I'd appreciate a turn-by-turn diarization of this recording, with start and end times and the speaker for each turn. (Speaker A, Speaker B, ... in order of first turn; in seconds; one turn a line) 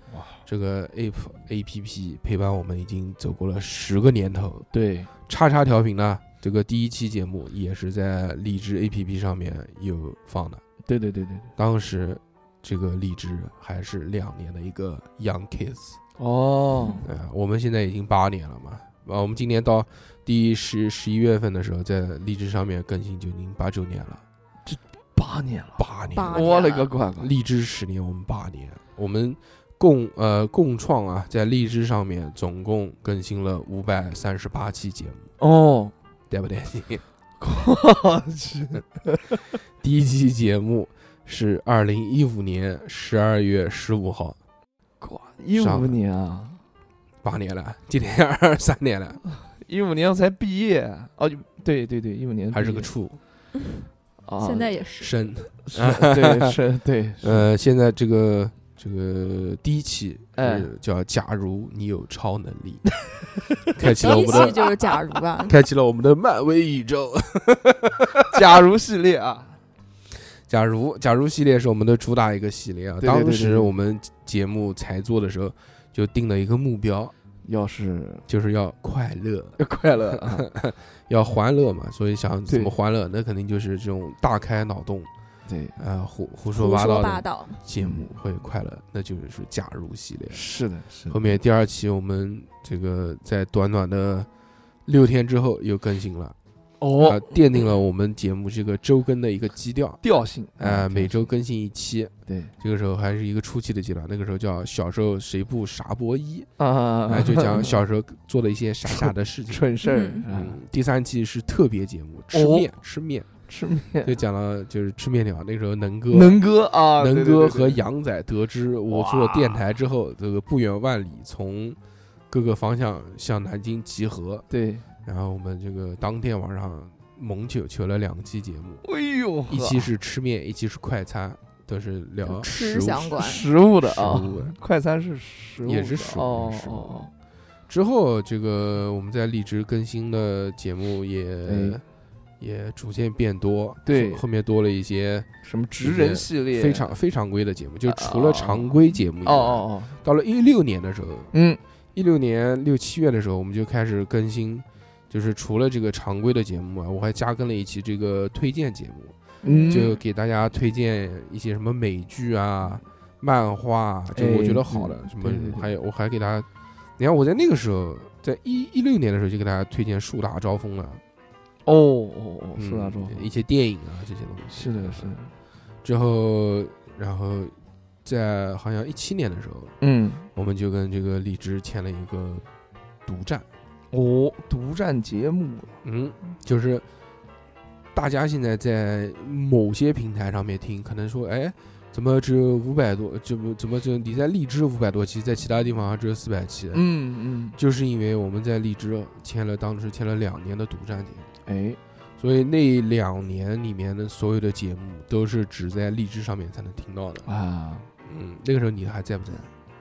Speaker A: 0.1-0.4
Speaker B: 0.5-4.7
Speaker A: 4.7-5.1
Speaker B: 5.2-10.6
Speaker A: 10.8-11.5
Speaker B: 11.6-16.0
Speaker A: 16.1-17.1
Speaker B: 17.0-24.2
Speaker A: 24.6-27.3
Speaker B: 25.8-26.6
Speaker C: 26.1-26.9
Speaker B: 27.2-35.2
Speaker A: 35.4-35.9
Speaker B: 36.3-37.0
Speaker A: 37.4-39.3
Speaker B: 39.8-44.4
Speaker A: 45.0-46.6
Speaker B: 45.5-46.0
Speaker B: 47.2-49.2
Speaker A: 49.4-52.9
Speaker B: 52.5-53.2
Speaker A: 54.2-54.8
Speaker C: 54.4-55.1
Speaker B: 55.0-56.6
Speaker A: 55.6-57.5
Speaker B: 57.2-63.0
Speaker A: 60.3-60.7
Speaker B: 63.7-68.2
Speaker C: 63.9-65.5
Speaker A: 64.0-64.6
Speaker A: 68.3-69.6
Speaker B: 70.5-77.1
Speaker A: 73.0-73.7
Speaker A: 77.4-78.2
Speaker B: 78.3-79.6
Speaker A: 79.6-80.5
Speaker B: 80.2-85.1
Speaker A: 82.5-82.7
Speaker A: 85.5-85.8
Speaker B: 85.8-90.4
Speaker C: 86.5-87.6
Speaker A: 87.8-88.1
Speaker A: 90.3-91.4
Speaker B: 91.1-94.3
Speaker B: 94.8-96.3
Speaker A: 96.8-97.4
Speaker B: 97.0-100.0
Speaker A: 100.0-101.3
Speaker B: 100.6-106.5
Speaker A: 102.3-102.5
Speaker A: 106.6-107.8
Speaker B: 107.1-109.7
Speaker A: 108.9-110.6
Speaker C: 109.8-110.2
Speaker B: 110.3-113.3
Speaker A: 112.3-112.8
Speaker A: 113.5-114.2
Speaker B: 114.0-116.4
Speaker A: 116.1-117.8
Speaker B: 117.0-121.8
Speaker A: 118.9-119.6
Speaker B: 122.3-124.5
Speaker A: 124.5-124.9
Speaker B: 125.0-128.8
Speaker A: 128.8-129.9
Speaker B: 129.5-133.2
Speaker C: 132.2-133.4
Speaker A: 133.2-137.1
Speaker B: 133.8-134.6
Speaker B: 135.6-137.0
Speaker B: 137.7-141.8
Speaker A: 141.4-141.8
Speaker B: 142.4-145.3
Speaker A: 143.8-144.2
Speaker A: 145.4-147.0
Speaker B: 145.8-151.3
Speaker A: 147.8-150.0
Speaker A: 151.3-151.6
Speaker B: 151.9-159.1
Speaker C: 159.4-159.9
Speaker A: 159.4-160.0
Speaker B: 159.7-166.5
Speaker A: 164.1-165.7
Speaker B: 167.0-171.0
Speaker A: 171.6-173.3
Speaker B: 172.6-175.1
Speaker A: 174.5-175.3
Speaker B: 175.8-179.7
Speaker A: 179.8-180.3
Speaker B: 180.3-182.4
Speaker B: 183.1-183.4
Speaker A: 183.9-185.8
Speaker B: 185.8-186.8
Speaker B: 187.9-196.8
Speaker A: 196.7-197.6
Speaker B: 197.6-201.3
Speaker A: 201.4-201.8
Speaker B: 202.2-207.3
Speaker A: 207.2-207.9
Speaker B: 208.0-209.5